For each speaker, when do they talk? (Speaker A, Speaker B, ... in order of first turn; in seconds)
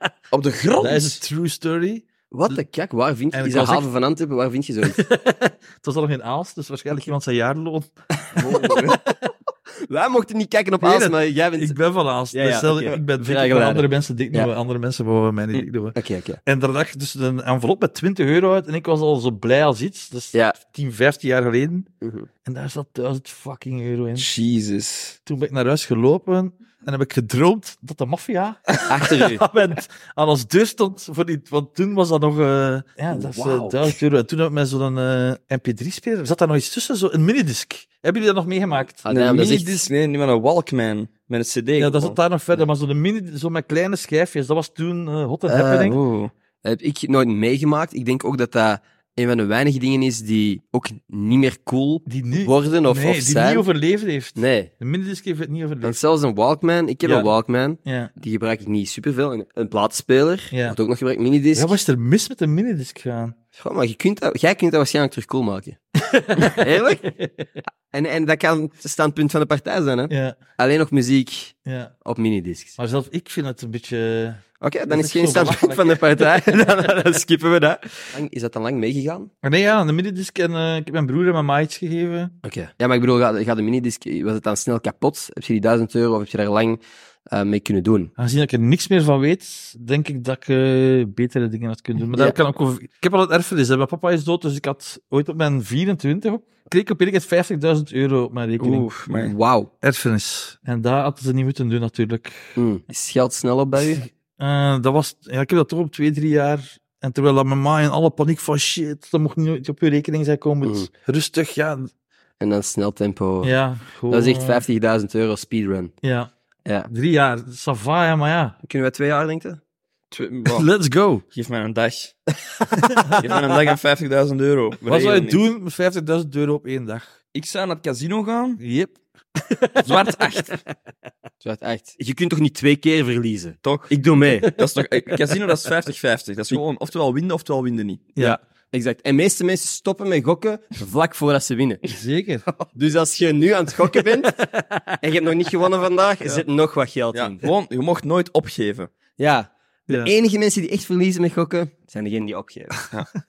Speaker A: 0.3-1.2, 8.4-9.0, 24.2-25.1, 39.1-42.2, 45.8-46.3, 98.6-99.3, 120.1-120.7, 121.3-122.2, 123.1-125.4, 127.3-128.6, 129.8-130.6, 133.6-138.1, 147.1-148.9
Speaker B: 0.8-2.6, 3.3-3.9, 4.8-8.8, 10.8-21.9, 22.4-24.3, 25.2-39.0, 41.8-46.0, 52.1-56.0, 57.0-57.3, 57.8-58.1, 60.5-60.8, 61.5-63.3, 66.1-66.6, 70.1-70.4, 71.7-71.9, 72.8-76.6, 79.4-82.3, 88.2-98.9, 99.8-102.6, 103.9-111.9, 113.4-114.6, 116.0-116.3, 116.9-118.5, 120.5-121.2, 122.8-123.2, 124.9-127.1, 128.6-129.0, 129.5-130.4, 141.9-142.5, 144.4-144.8
Speaker C: 2.3-5.0, 8.3-9.1, 9.9-11.8, 12.3-14.5, 15.9-16.4, 20.3-20.6, 22.0-22.3, 28.9-29.4, 33.1-33.8, 39.0-39.9, 45.5-46.0, 46.6-53.6, 54.4-54.7, 55.8-61.8, 63.5-65.8, 66.4-72.8, 74.6-79.3, 82.4-88.1, 99.2-99.7, 102.5-104.0, 110.6-110.9, 112.4-113.5, 114.1-115.9, 118.6-119.6, 131.4-134.6, 138.2-141.8, 142.7-144.4, 145.0-147.4, 149.2-152.8